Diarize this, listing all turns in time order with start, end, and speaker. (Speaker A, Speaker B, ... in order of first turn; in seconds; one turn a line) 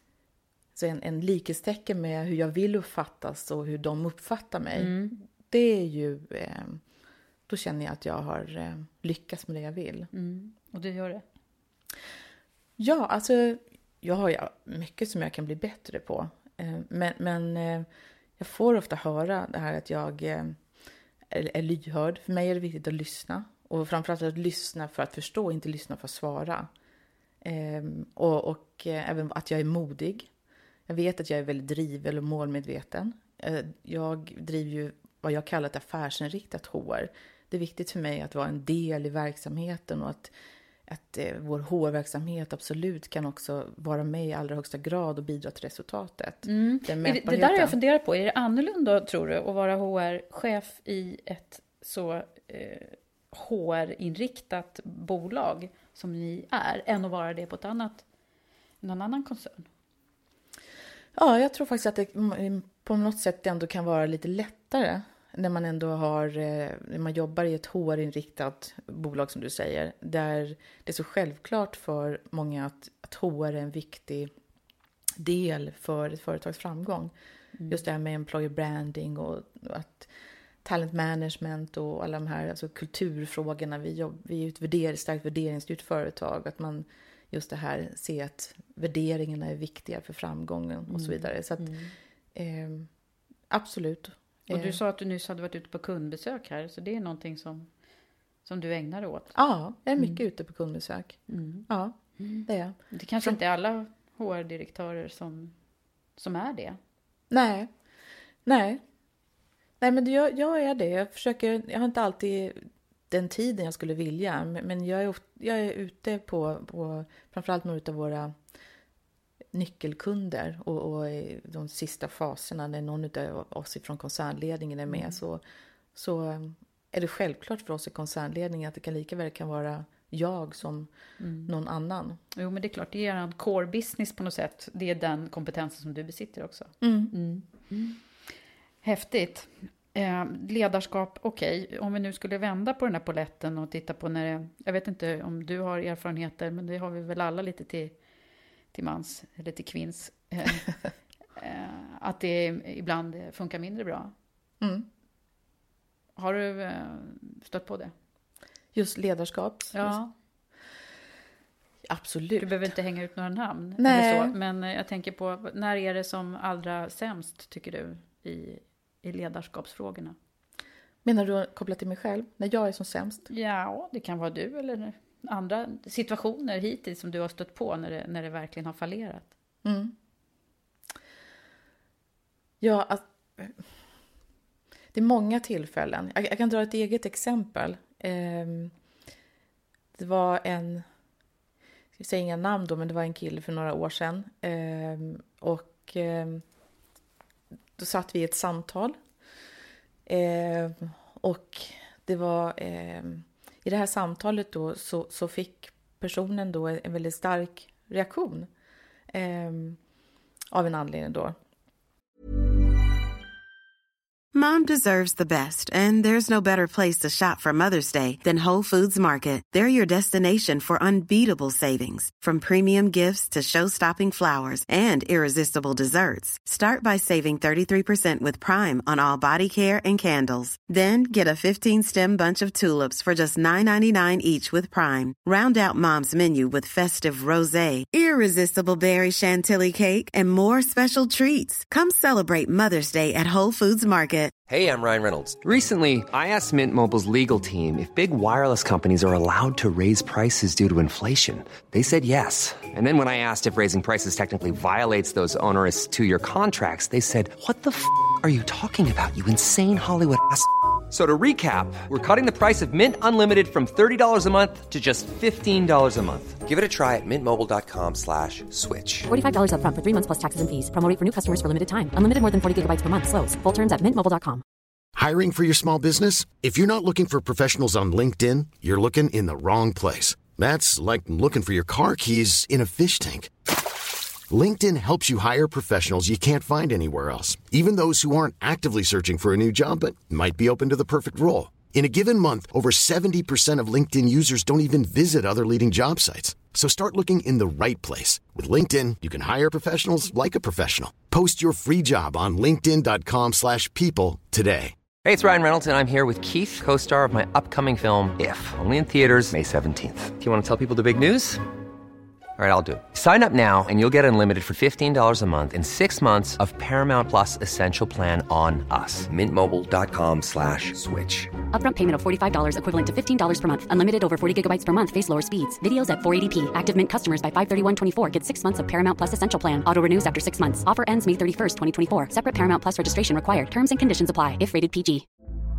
Speaker A: 0.7-6.8
Speaker B: 4.8-5.2
Speaker A: 7.5-10.1
Speaker B: 10.1-11.2
Speaker A: 12.8-17.9
Speaker A: 18.4-20.6
Speaker A: 21.3-26.7
Speaker A: 27.4-30.3
Speaker A: 30.9-40.3
Speaker A: 40.9-47.8
Speaker B: 46.5-58.0
Speaker B: 58.8-59.7
Speaker A: 61.1-74.3
Speaker A: 75.2-77.1
Speaker A: 77.7-80.1
Speaker A: 80.6-91.8
Speaker B: 90.9-91.9
Speaker A: 92.3-92.9
Speaker A: 93.5-94.8
Speaker B: 94.5-97.7
Speaker B: 98.5-99.3
Speaker A: 99.3-103.4
Speaker B: 101.3-101.7
Speaker B: 102.2-105.5
Speaker B: 106.2-106.8
Speaker A: 107.3-107.7
Speaker A: 108.5-108.8
Speaker A: 109.8-118.3
Speaker A: 119.5-125.4
Speaker B: 124.9-125.2
Speaker A: 125.9-130.9
Speaker B: 131.2-131.5
Speaker A: 131.5-132.2
Speaker B: 132.3-138.0
Speaker A: 136.8-137.1
Speaker B: 138.8-148.0
Speaker B: 148.7-150.7
Speaker B: 151.4-154.1
Speaker A: 154.6-154.9
Speaker B: 156.2-157.9
Speaker A: 158.7-160.0
Speaker B: 159.7-160.1
Speaker A: 161.9-162.7
Speaker B: 162.4-170.2
Speaker A: 163.8-164.3
Speaker A: 171.0-173.3
Speaker B: 173.3-179.3
Speaker A: 179.6-179.9
Speaker A: 182.6-183.6
Speaker A: 184.9-188.7
Speaker A: 189.9-190.8
Speaker A: 192.0-196.4
Speaker A: 197.8-199.0
Speaker A: 200.1-208.5
Speaker A: 209.1-209.8
Speaker A: 210.5-211.4
Speaker C: 214.3-244.3
Speaker D: 244.5-269.1
Speaker E: 269.1-274.4
Speaker F: 275.0-283.3
Speaker F: 284.3-304.8
Speaker D: 305.0-311.4
Speaker D: 312.4-321.3
Speaker E: 321.5-335.1